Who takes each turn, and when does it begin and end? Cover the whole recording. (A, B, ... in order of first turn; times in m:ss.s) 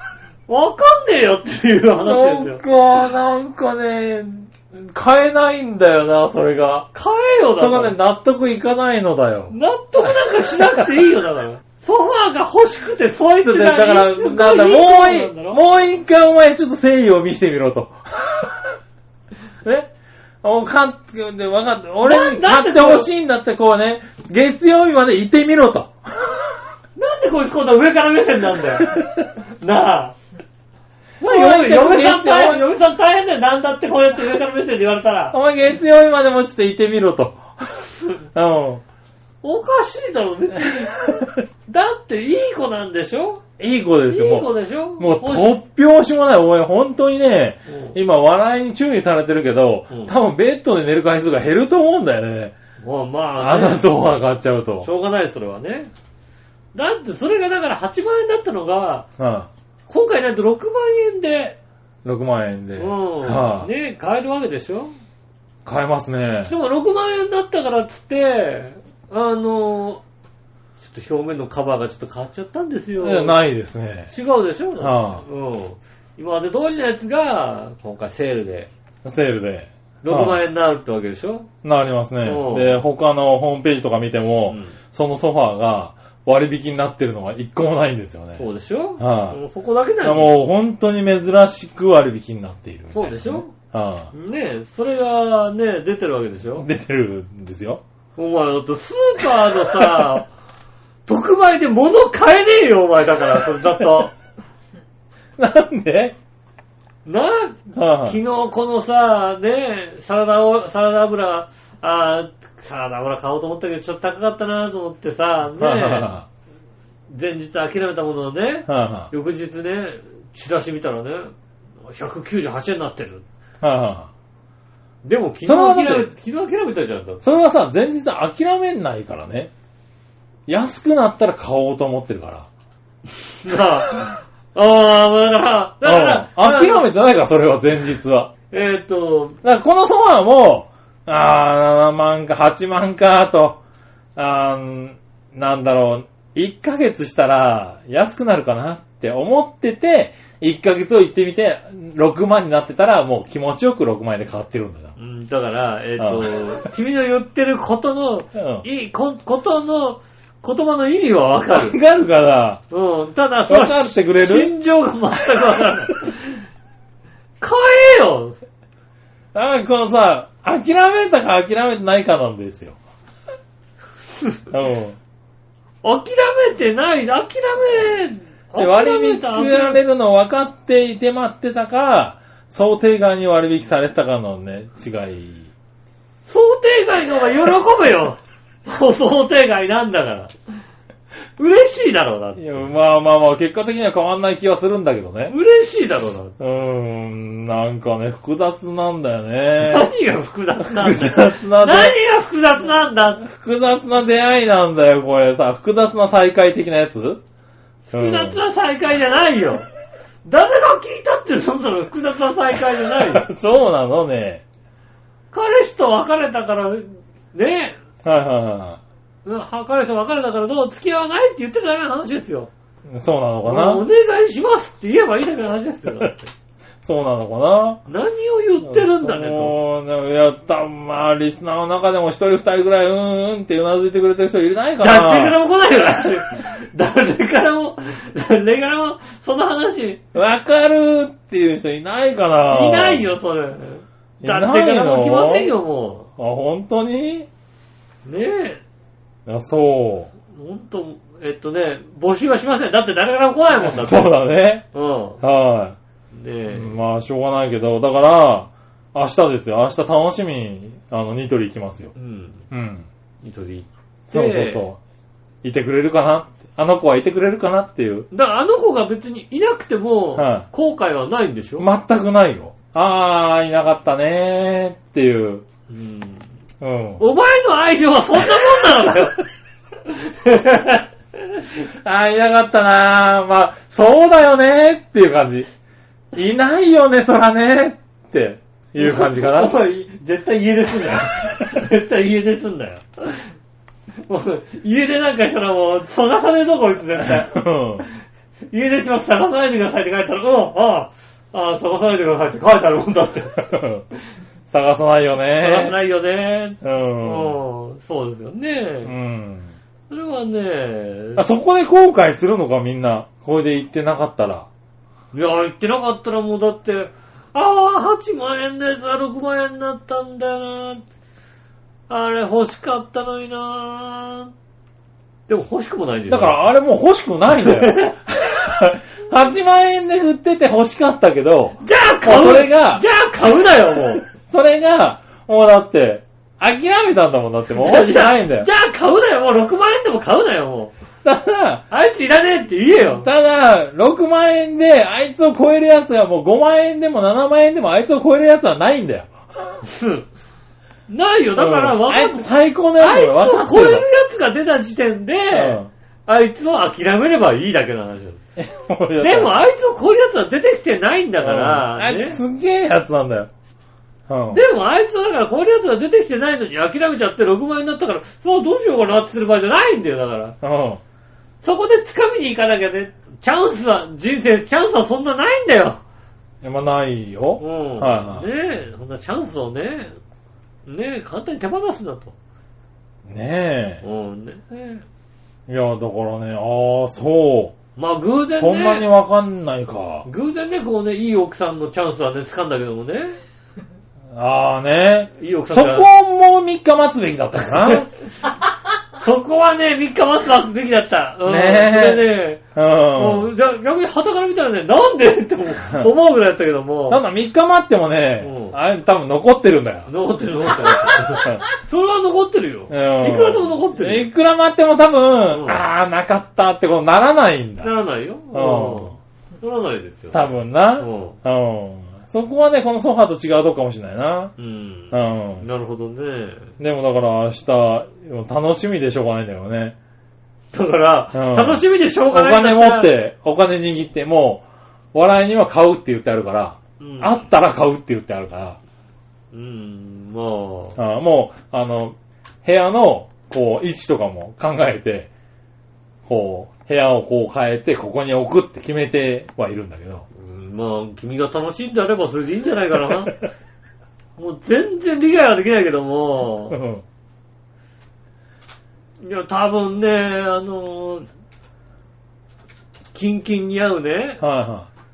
0:00.5-0:02.6 A
0:02.0-0:06.9 B
0:06.9-0:08.0 A
0:07.6-0:11.0 B
0:09.5-0:15.6 A
0:13.4-0:18.8 B
0:19.6-0:19.9 B
0:20.4-0:26.6 B
0:22.0-0:23.1 A
0:27.0-0:30.2 A
0:28.9-0:29.3 B
0:31.2-0:32.7 B
0:31.2-0:35.4 A
0:35.3-0:38.8 B
0:39.4-0:41.1 A
0:40.7-0:41.3 B
0:41.7-0:43.4 A
0:43.6-0:52.5 B
0:44.1-0:45.6 A
0:47.7-0:48.0 A
0:52.8-0:53.9 A
0:53.4-0:54.9 B
0:54.8-0:55.9 A
0:56.7-0:59.1 A
0:59.2-0:59.5 B
0:59.9-1:01.6 A
1:02.0-1:03.7 B
1:02.8-1:04.9 A
1:05.6-1:06.6 B
1:06.5-1:10.0 A
1:10.8-1:13.4 A
1:13.0-1:14.1 B
1:14.1-1:18.7 A
1:14.8-1:15.2 B
1:19.0-1:20.4 B
1:20.0-1:21.5 A
1:21.6-1:28.4 B
1:22.2-1:22.8 A
1:24.5-1:24.8 A
1:28.4-1:30.4 A
1:29.0-1:29.4 B
1:30.0-1:34.1 B
1:32.9-1:33.5 A
1:34.1-1:36.7 A
1:36.6-1:37.8 B
1:38.2-1:40.3 A
1:39.6-1:40.1 B
1:41.1-1:44.2 A
1:45.4-1:46.2 B
1:47.0-1:56.1 A
1:47.7-1:48.2 B
1:55.6-1:56.3 B
1:57.1-2:01.3 A
1:58.7-1:59.1 B
2:01.8-2:03.2 A
2:03.6-2:04.1 B
2:05.0-2:07.2 A
2:05.4-2:06.1 B
2:07.2-2:09.5 B
2:10.5-2:12.5 B
2:13.2-2:16.9 A
2:15.8-2:18.3 B
2:18.5-2:19.4 A
2:19.4-2:23.6 B
2:24.2-2:34.9 B
2:35.0-2:41.8 A
2:36.0-2:36.4 B
2:38.4-2:38.6 B
2:41.5-2:42.6 B
2:42.7-2:46.4 A
2:43.5-2:44.5 B
2:47.4-2:48.4 A
2:49.3-2:52.8 B
2:54.1-2:54.4 A
2:54.5-2:55.0 B
2:55.8-2:59.8 A
2:58.6-3:05.5 B
3:06.3-3:10.3 A
3:11.4-3:12.7 A
3:12.4-3:15.3 B
3:15.3-3:16.4 A
3:16.4-3:19.9 B
3:19.6-3:23.2 A
3:20.6-3:22.0 B
3:23.2-3:27.2 B
3:27.9-3:29.7 A
3:27.9-3:28.4 B
3:30.2-3:33.3 A
3:32.8-3:34.4 B
3:35.3-3:37.8 A
3:38.0-3:38.8 B
3:39.2-3:42.5 A
3:42.9-3:43.9 B
3:43.4-3:46.3 A
3:46.8-3:47.8 B
3:47.9-3:49.6 A
3:48.6-3:55.4 B
3:54.8-4:00.0 A
4:00.1-4:03.1 B
4:02.5-4:06.1 A
4:04.2-4:05.5 B
4:06.2-4:07.3 B
4:08.0-4:08.6 A
4:09.3-4:10.1 B
4:10.3-4:14.2 A
4:13.6-4:14.6 B
4:14.7-4:15.2 A
4:15.2-4:15.8 B
4:16.1-4:16.8 A
4:16.5-4:21.9 B
4:22.0-4:22.5 A
4:22.5-4:22.9 B
4:23.2-4:24.7 A
4:24.1-4:24.8 B
4:25.4-4:28.1 B
4:28.1-4:31.7 A
4:30.2-4:30.5 B
4:31.6-4:35.4 B
4:35.7-4:36.2 A
4:36.6-4:37.0 B
4:37.0-4:39.2 A
4:38.4-4:38.9 B
4:39.9-4:40.9 A
4:41.7-4:45.5 B
4:46.1-4:49.6 B
4:48.8-4:53.3 A
4:54.1-4:57.4 A
4:57.0-4:57.8 B
4:58.5-5:03.4 A
5:03.4-5:03.8 B
5:04.5-5:05.8 B
5:05.4-5:08.9 A
5:06.6-5:07.4 B
5:08.8-5:09.5 B
5:09.9-5:11.2 A
5:11.2-5:14.5 B
5:15.1-5:20.8 A
5:21.9-5:24.3 A
5:25.3-5:26.4 A
5:26.1-5:32.8 B
5:27.3-5:28.0 A
5:31.6-5:34.0 A
5:34.1-5:38.5 B
5:37.6-5:40.8 A
5:41.0-5:41.6 B
5:41.7-5:43.1 A
5:42.8-5:49.1 B
5:49.6-5:50.1 A
5:50.9-5:58.2 A
5:51.4-5:53.8 B
5:55.3-5:55.7 B
5:58.4-5:59.4 B
5:59.0-6:02.2 A
6:01.2-6:03.3 B
6:04.1-6:04.4 B
6:04.3-6:10.4 A
6:10.4-6:10.8 B
6:11.4-6:15.8 A
6:16.4-6:18.3 B
6:17.4-6:20.0 A
6:20.7-6:22.1 A
6:23.0-6:23.8 B
6:23.8-6:24.8 A
6:25.5-6:27.6 B
6:27.8-6:28.9 A
6:28.4-6:30.1 B
6:30.0-6:33.2 A
6:34.1-6:37.9 B
6:35.2-6:35.9 A
6:39.0-6:42.4 A
6:41.2-6:43.3 B
6:43.0-6:47.0 A
6:45.6-6:45.9 B
6:46.9-6:49.9 B
6:48.2-6:48.6 A
6:49.9-6:54.1 A
6:50.5-6:51.5 B
6:52.7-6:57.7 B
6:55.3-6:55.6 A
6:57.6-7:01.2 A
6:58.3-6:59.0 B
7:00.1-7:04.3 B
7:04.4-7:06.5 A
7:04.9-7:05.4 B
7:06.6-7:09.8 B
7:10.5-7:13.0 A
7:11.1-7:18.6 B
7:16.8-7:17.2 A
7:19.3-7:20.8 A
7:20.8-7:25.1 B
7:26.1-7:30.1 B
7:30.1-7:33.2 A
7:34.2-7:36.6 A
7:36.5-7:36.8 B
7:39.0-7:41.1 A
7:42.9-7:44.2 A
7:44.2-7:44.7 B